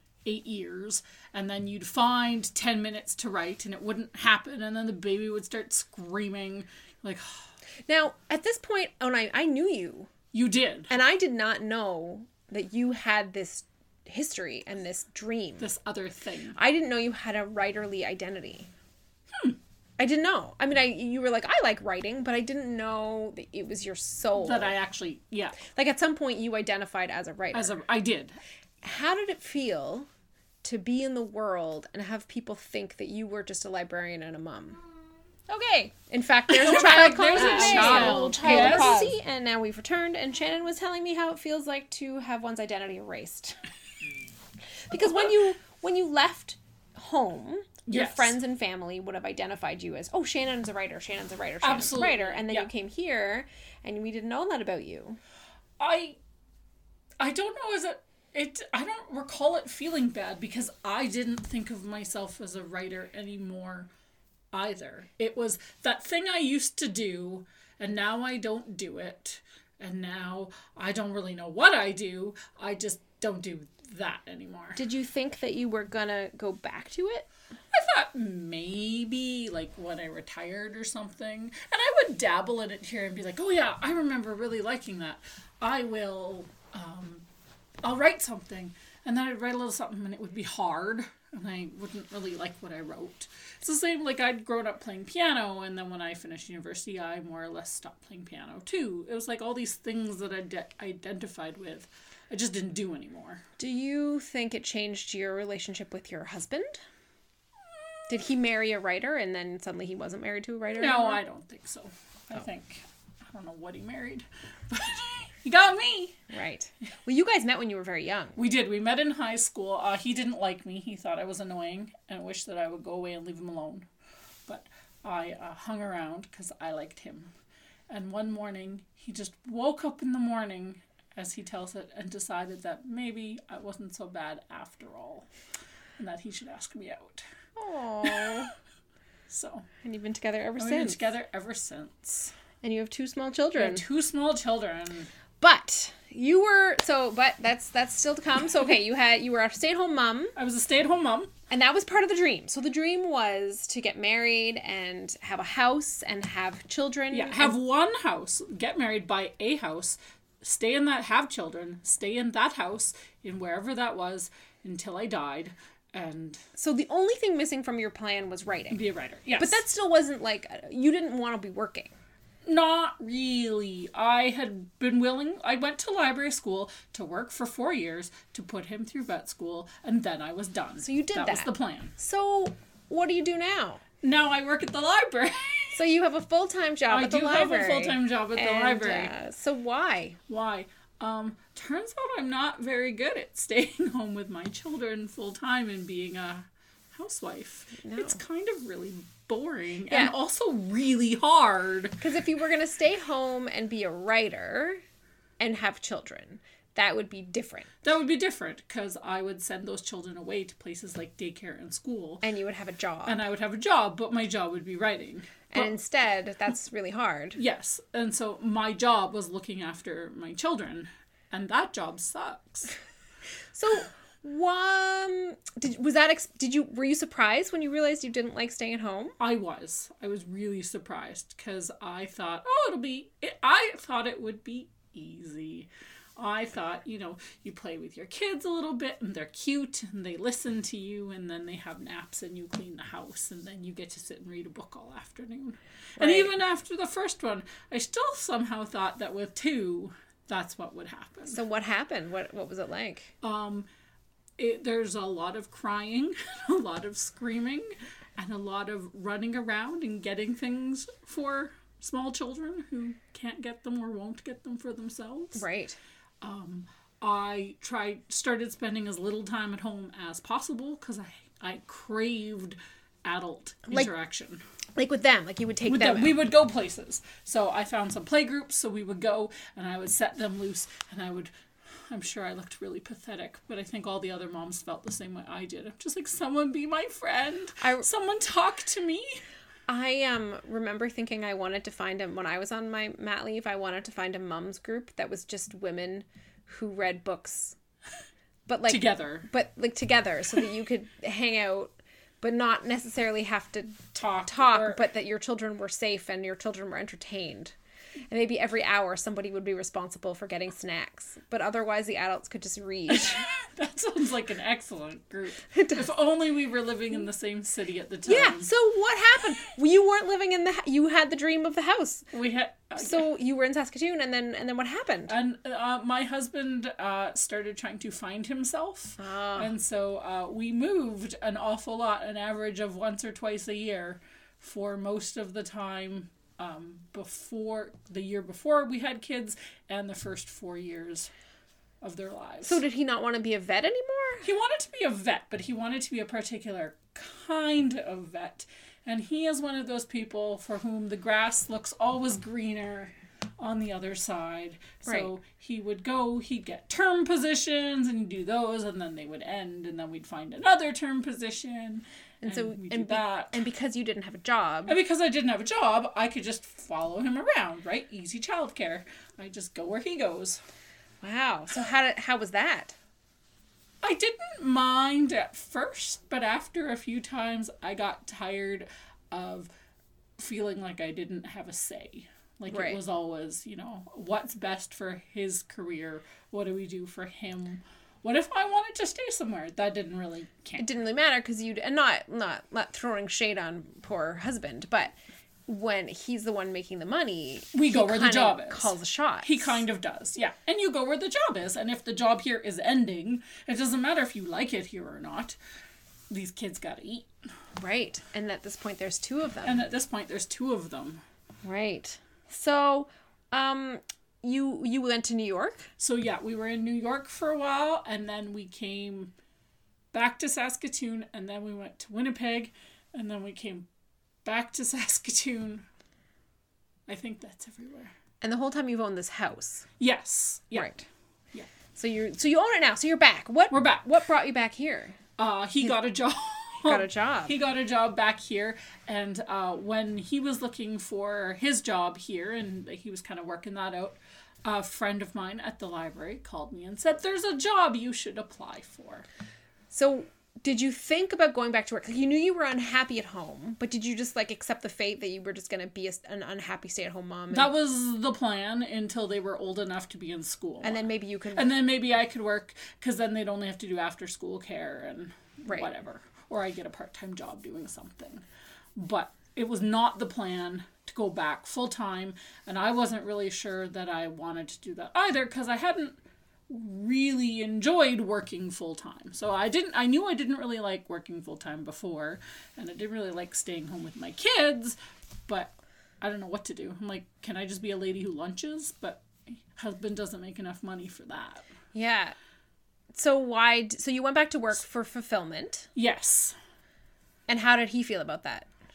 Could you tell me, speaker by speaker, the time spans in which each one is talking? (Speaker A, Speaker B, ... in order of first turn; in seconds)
Speaker A: 0.2-7.4, 10.3-10.9, 15.6-16.6, 24.4-25.6, 27.5-28.4, 36.5-39.1, 47.9-48.4, 51.6-52.7, 55.8-56.2, 57.2-63.9, 64.5-74.8, 77.7-87.2, 87.8-103.4, 110.7-116.2, 118.3-123.9, 124.5-127.3, 127.9-135.3, 136.0-137.2, 138.1-138.4, 139.3-139.7, 140.6-142.3, 143.6-145.1, 150.3-151.3, 157.1-166.4, 168.7-169.6, 172.4-181.9, 184.0-185.8, 186.9-189.1, 190.3-202.0, 207.8-212.2, 213.1-215.7, 217.3-222.8, 229.2-251.4, 253.2-253.7, 254.4-265.4, 266.2-274.4, 275.6-281.3, 281.9-289.2, 298.7-299.3, 303.9-304.9, 312.9-318.5, 322.1-323.1, 325.1-341.1, 341.8-342.6, 344.2-363.4, 364.7-370.4, 373.8-379.5, 380.2-390.7, 397.5-405.4, 406.1-407.1, 409.4-411.0, 415.8-419.1, 419.9-423.6, 424.2-425.6, 426.9-427.9, 429.8-430.8, 433.5-433.9, 435.2-449.1, 457.3-460.8, 461.3-468.2, 468.8-476.0, 476.5-484.8, 485.3-491.5, 495.7-496.3
Speaker B: 7.9-10.1, 10.9-15.7, 16.6-18.7, 20.0-24.8, 25.6-27.8, 28.8-30.1, 30.6-34.8, 35.5-43.6, 44.9-55.2, 74.8-77.3, 103.6-106.8, 108.1-111.2, 116.3-118.4, 137.6-138.5, 139.8-141.0, 142.6-143.8, 145.4-150.3, 151.5-157.6, 166.6-168.8, 169.4-171.9, 180.8-183.8, 185.7-190.2, 197.8-198.2, 199.9-200.1, 202.0-204.8, 205.4-207.7, 212.2-213.2, 215.5-217.4, 223.5-229.2, 246.0-246.3, 251.3-253.1, 265.3-265.8, 274.8-276.2, 287.6-287.9, 289.7-297.6, 298.5-307.5, 308.1-313.2, 315.5-315.9, 318.1-322.1, 322.8-325.1, 329.0-329.5, 342.4-344.2, 354.8-355.1, 362.2-364.8, 371.0-372.7, 382.5-382.8, 390.6-394.9, 395.5-399.6, 407.6-409.6, 411.4-415.7, 428.2-429.6, 430.5-430.8, 431.7-435.0, 436.6-437.3, 449.7-457.5, 460.6-461.5, 491.7-492.1, 492.9-495.7, 497.3-498.5